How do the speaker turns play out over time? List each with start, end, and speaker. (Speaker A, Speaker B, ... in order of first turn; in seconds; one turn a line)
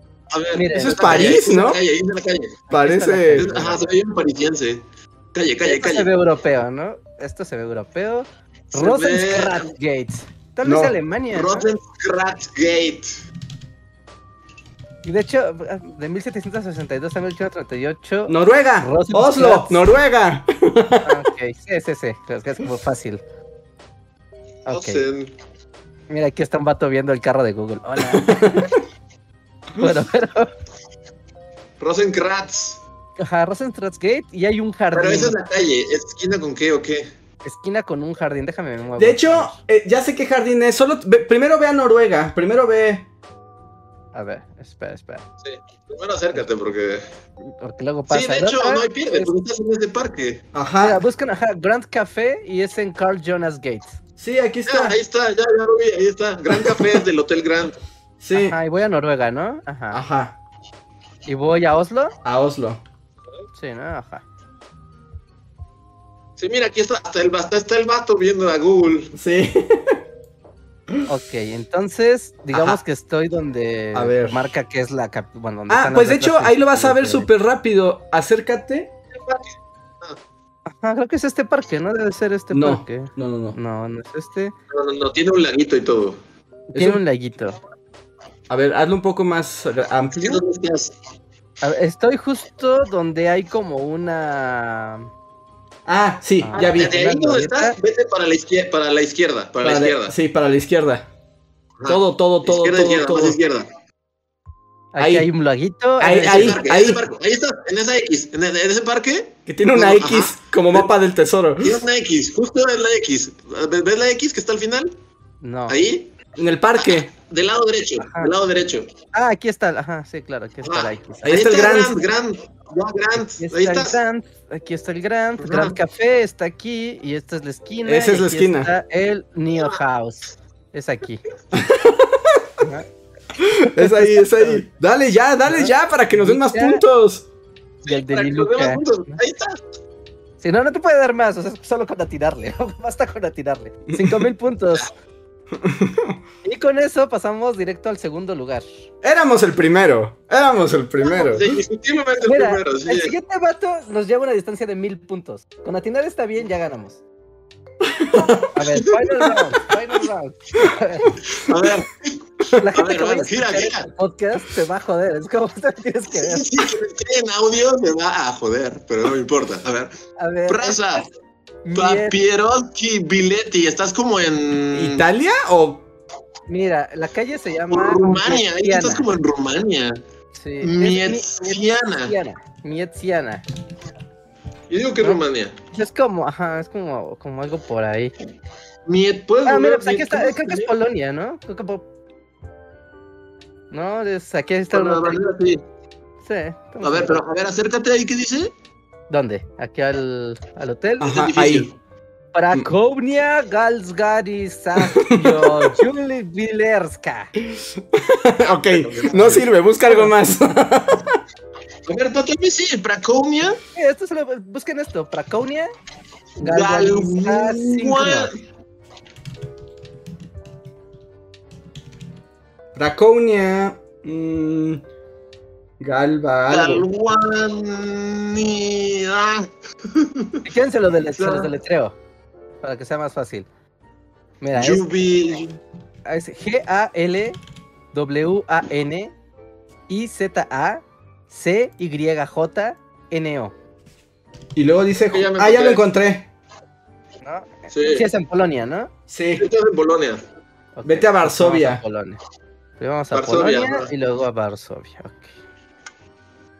Speaker A: 0.3-2.6
Speaker B: 0.5-1.4
Speaker C: 0.7-1.8
Speaker B: 2.7-3.8
Speaker C: 2.7-3.7
Speaker A: 3.3-6.1
Speaker B: 5.6-11.7
Speaker A: 8.7-9.7
Speaker C: 10.6-10.9
Speaker A: 11.3-13.2
Speaker B: 15.0-19.8
Speaker C: 18.3-21.1
Speaker B: 21.0-23.2
Speaker B: 24.6-25.0
Speaker A: 24.7-25.3
Speaker B: 26.1-28.7
Speaker C: 28.0-28.7
Speaker B: 29.8-30.5
Speaker A: 31.8-32.8
Speaker B: 33.2-35.3
Speaker A: 34.9-37.1
Speaker B: 37.4-39.6
Speaker C: 39.0-43.0
Speaker B: 44.1-45.2
Speaker A: 45.4-47.0
Speaker B: 47.6-49.3
Speaker A: 48.1-50.5
Speaker C: 50.5-51.0
Speaker B: 50.8-53.9
Speaker C: 54.2-55.0
Speaker A: 54.7-57.8
Speaker C: 56.5-57.0
Speaker C: 58.2-58.6
Speaker B: 58.3-60.0
Speaker C: 59.9-60.4
Speaker B: 61.2-62.1
Speaker C: 62.2-62.8
Speaker B: 63.5-64.2
Speaker A: 66.4-69.1
Speaker C: 69.1-70.0
Speaker B: 71.1-77.3
Speaker C: 72.5-72.8
Speaker C: 73.9-74.4
Speaker C: 75.7-78.9
Speaker A: 79.1-80.2
Speaker B: 80.7-84.5
Speaker C: 82.5-83.6
Speaker A: 84.7-86.2
Speaker B: 86.7-87.6
Speaker C: 86.7-87.0
Speaker C: 88.5-90.4
Speaker A: 90.2-91.0
Speaker B: 91.6-95.1
Speaker C: 95.8-96.9
Speaker B: 96.4-97.8
Speaker A: 96.5-100.1
Speaker C: 99.6-101.1
Speaker A: 101.8-103.7
Speaker C: 101.9-103.4
Speaker B: 104.9-106.6
Speaker C: 105.0-105.3
Speaker C: 106.0-107.0
Speaker A: 106.2-110.9
Speaker C: 109.5-111.8
Speaker A: 111.6-115.0
Speaker B: 115.4-115.8
Speaker A: 115.7-116.1
Speaker C: 116.3-117.1
Speaker A: 116.8-118.9
Speaker B: 118.0-118.3
Speaker B: 119.1-121.4
Speaker A: 120.6-124.0
Speaker C: 121.2-122.0
Speaker B: 123.4-131.2
Speaker A: 125.4-125.7
Speaker C: 127.8-128.7
Speaker C: 131.5-132.4
Speaker B: 132.6-132.9
Speaker C: 133.4-137.2
Speaker B: 133.6-134.6
Speaker B: 135.5-136.8
Speaker A: 137.8-139.6
Speaker B: 137.8-138.8
Speaker B: 140.4-144.9
Speaker C: 143.9-144.3
Speaker C: 145.5-146.2
Speaker B: 146.4-148.7
Speaker C: 149.0-151.6
Speaker A: 151.0-153.1
Speaker B: 152.2-157.0
Speaker C: 157.9-158.5
Speaker B: 158.5-161.2
Speaker A: 161.3-162.2
Speaker B: 162.6-166.5
Speaker A: 162.7-163.9
Speaker A: 166.1-169.9
Speaker B: 170.2-170.8
Speaker A: 170.5-171.1
Speaker B: 171.6-172.2
Speaker A: 171.8-175.0
Speaker C: 174.7-175.8
Speaker B: 176.5-179.1
Speaker A: 177.7-180.0
Speaker B: 180.3-183.4
Speaker A: 180.6-182.1
Speaker A: 184.7-185.6
Speaker B: 185.0-188.1
Speaker A: 188.8-190.7
Speaker B: 189.4-191.8
Speaker B: 193.7-195.2
Speaker A: 194.7-195.6
Speaker B: 196.2-197.2
Speaker A: 196.8-198.5
Speaker B: 199.1-201.3
Speaker C: 201.0-201.7
Speaker A: 201.0-201.7
Speaker B: 202.3-207.3
Speaker C: 204.8-205.7
Speaker C: 207.4-211.2
Speaker A: 208.4-209.5
Speaker A: 211.9-213.6
Speaker B: 213.7-215.7
Speaker A: 216.4-218.3
Speaker B: 216.4-218.3
Speaker C: 222.7-224.8
Speaker C: 225.8-226.9
Speaker A: 226.5-230.4
Speaker B: 230.4-231.9
Speaker A: 231.2-231.5
Speaker B: 232.6-233.5
Speaker B: 234.4-234.8
Speaker A: 234.5-235.6
Speaker B: 236.1-237.4
Speaker B: 237.9-239.1
Speaker B: 239.9-243.5
Speaker C: 244.5-246.3
Speaker A: 245.1-245.8
Speaker B: 247.2-248.9
Speaker A: 247.7-248.0
Speaker C: 249.1-249.4
Speaker A: 249.4-250.2
Speaker B: 250.7-252.2
Speaker C: 250.8-251.8
Speaker B: 252.8-255.3
Speaker A: 253.1-253.9